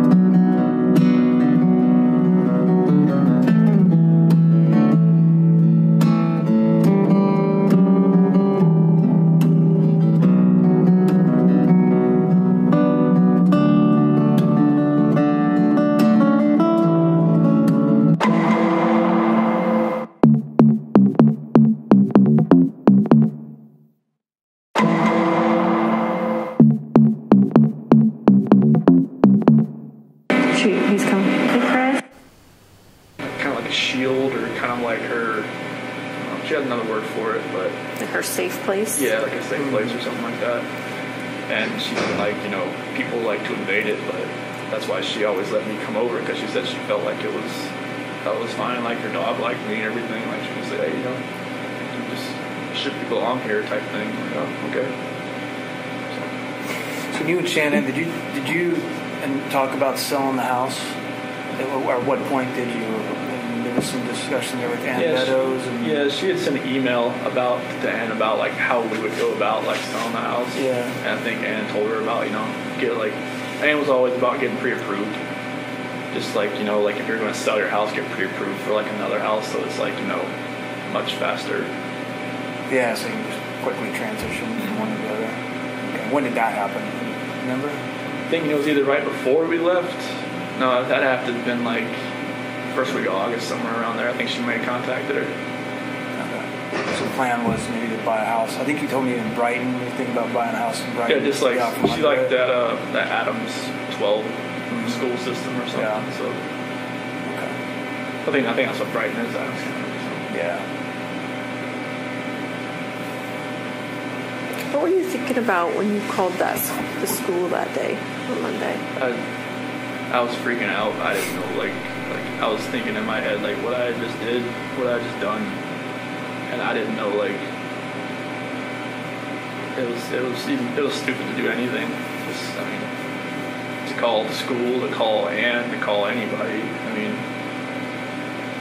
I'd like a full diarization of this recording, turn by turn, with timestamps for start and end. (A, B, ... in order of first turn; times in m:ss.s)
0:30.5-0:32.0 A
0:33.2-0:35.5 B
0:36.2-0:37.8 B
0:38.0-0:39.1 A
0:39.0-0:40.6 B
0:41.5-0:47.7 B
0:48.2-0:51.2 B
0:51.8-0:54.9 B
0:56.9-1:01.0 C
1:01.6-1:06.0 C
1:05.0-1:15.2 B
1:10.6-1:11.0 C
1:16.1-1:20.3 B
1:20.9-1:21.7 B
1:22.7-1:25.4 C
1:25.9-1:27.8 C
1:28.3-1:32.0 B
1:32.7-1:35.3 B
1:36.2-1:42.3 C
1:41.1-1:46.4 B
1:44.7-1:45.0 C
1:45.8-1:46.0 C
1:47.2-1:47.6 C
1:48.2-1:50.3 B
1:50.3-1:50.6 C
1:54.7-1:58.8 A
2:00.1-2:05.6 B
2:06.5-2:07.4 B
2:09.8-2:12.9 B
2:13.8-2:17.2 B